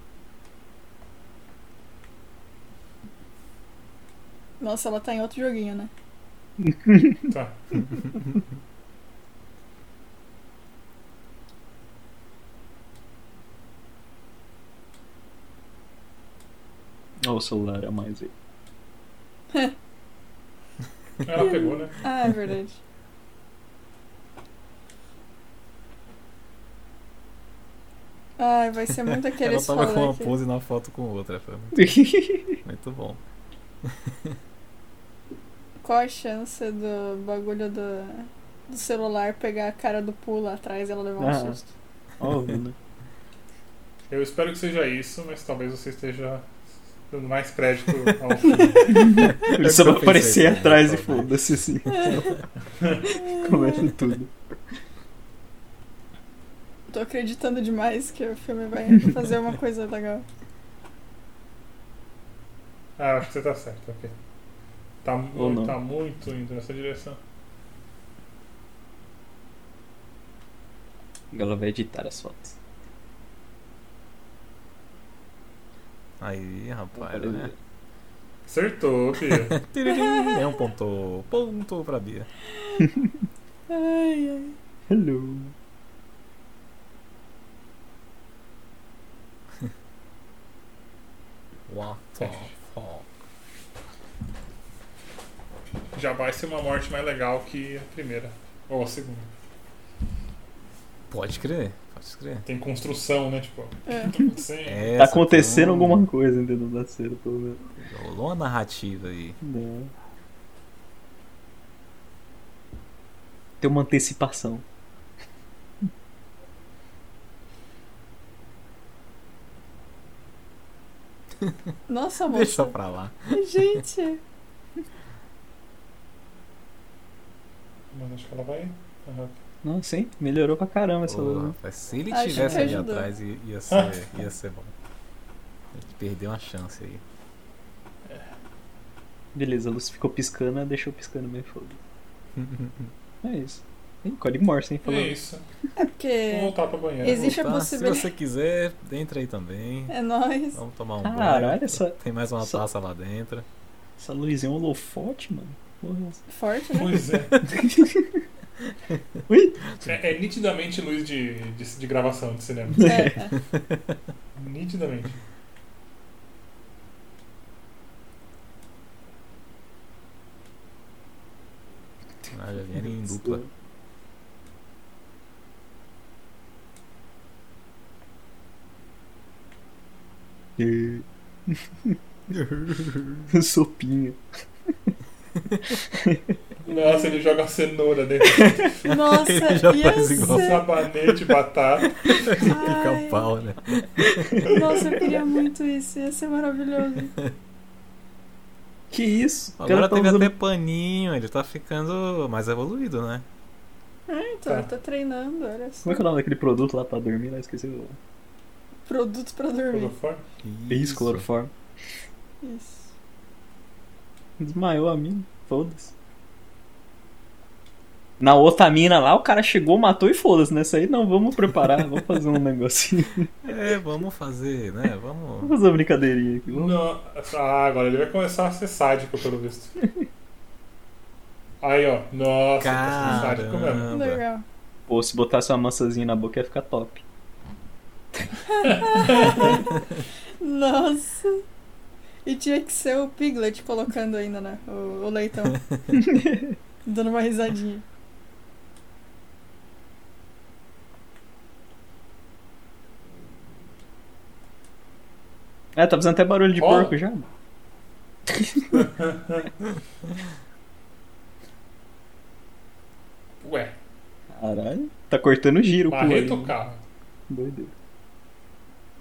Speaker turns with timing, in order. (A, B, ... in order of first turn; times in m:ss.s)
0:04.6-0:05.9 A
0:06.6-0:07.3 B
0:07.3-0:07.8 C
0:17.2-0:18.3 B
0:21.2-0:22.0 C
0:21.3-0:22.8 A
0:28.4-0:30.3 A
0:29.1-0:32.0 D
0:31.8-0:32.6 B
0:32.6-0:33.2 D
0:33.8-0:34.4 D
0:35.8-0:41.7 A
0:41.2-0:41.6 B
0:42.2-0:42.8 B
0:44.1-0:46.5 C
0:47.1-0:49.2 C
0:48.4-0:49.6 A
0:49.0-0:52.4 B
0:49.3-0:51.3 D
0:51.9-0:52.4 A
0:53.0-0:53.9 A
0:53.1-0:54.3 B
0:56.9-1:00.2 A
1:03.0-1:04.2 C
1:05.0-1:07.2 C
1:05.4-1:05.8 B
1:11.3-1:12.5 B
1:16.2-1:17.5 D
1:17.0-1:17.5 B
1:18.5-1:19.6 C
1:19.6-1:22.3 D
1:19.9-1:20.5 A
1:23.7-1:24.6 A
1:24.9-1:25.5 B
1:31.7-1:33.1 D
1:32.2-1:32.5 C
1:35.9-1:39.3 C
1:41.1-1:42.5 D
1:42.4-1:44.9 C
1:43.9-1:44.2 A
1:44.6-1:46.1 D
1:45.0-1:47.7 B
1:47.8-1:49.4 D
1:49.4-1:49.9 B
1:53.6-1:54.6 B
2:01.9-2:02.8 A
2:02.3-2:03.8 D
2:03.3-2:04.2 A
2:07.9-2:09.4 C
2:09.6-2:11.6 B
2:11.1-2:14.7 D
2:12.1-2:13.1 A
2:12.4-2:12.8 B
2:13.7-2:14.0 C
2:15.7-2:17.0 D
2:19.3-2:21.8 B
2:22.4-2:22.9 D
2:23.2-2:25.2 B
2:24.8-2:25.4 C
2:25.8-2:28.1 A
2:26.3-2:27.3 C
2:27.1-2:29.9 D
2:29.9-2:30.6 A
2:30.6-2:33.5 D
2:31.0-2:32.6 B
2:34.0-2:36.2 B
2:36.3-2:37.0 A
2:36.7-2:37.4 C
2:37.4-2:38.2 B
2:39.3-2:39.6 B
2:39.8-2:43.1 C
2:42.7-2:43.1 B
2:42.8-2:43.3 A
2:44.4-2:45.2 C
2:52.3-2:53.4 D
2:53.0-2:53.5 B
3:00.6-3:02.0 B
3:02.3-3:03.3 D
3:03.3-3:04.2 B
3:05.7-3:06.3 B
3:06.6-3:08.8 C
3:06.7-3:07.3 A
3:08.3-3:08.7 B
3:08.8-3:10.7 A
3:08.8-3:10.6 D
3:10.2-3:12.0 C
3:12.2-3:14.6 D
3:12.3-3:13.3 A
3:14.4-3:17.1 A
3:18.9-3:20.3 B
3:19.6-3:23.2 D
3:24.1-3:26.0 A
3:25.8-3:28.0 B
3:28.9-3:29.9 A
3:29.7-3:30.2 C
3:30.4-3:31.2 D
3:30.7-3:31.5 B
3:32.4-3:32.9 A
3:34.4-3:35.9 B
3:38.2-3:43.4 B
3:43.4-3:45.5 D
3:45.4-3:46.8 B
3:46.5-3:49.7 C
3:51.6-3:53.9 C
3:52.6-3:54.2 D
3:53.9-3:54.4 A
3:54.9-3:57.0 B
3:58.5-3:59.8 A
3:58.7-3:59.5 C
4:00.4-4:01.4 A
4:02.2-4:05.6 A
4:05.9-4:06.6 B
4:06.8-4:07.8 A
4:15.8-4:17.3 B
4:16.5-4:17.0 C
4:18.3-4:18.9 B
4:18.7-4:19.5 C
4:23.4-4:23.7 C
4:24.3-4:26.6 B
4:25.8-4:26.8 C
4:27.3-4:27.7 B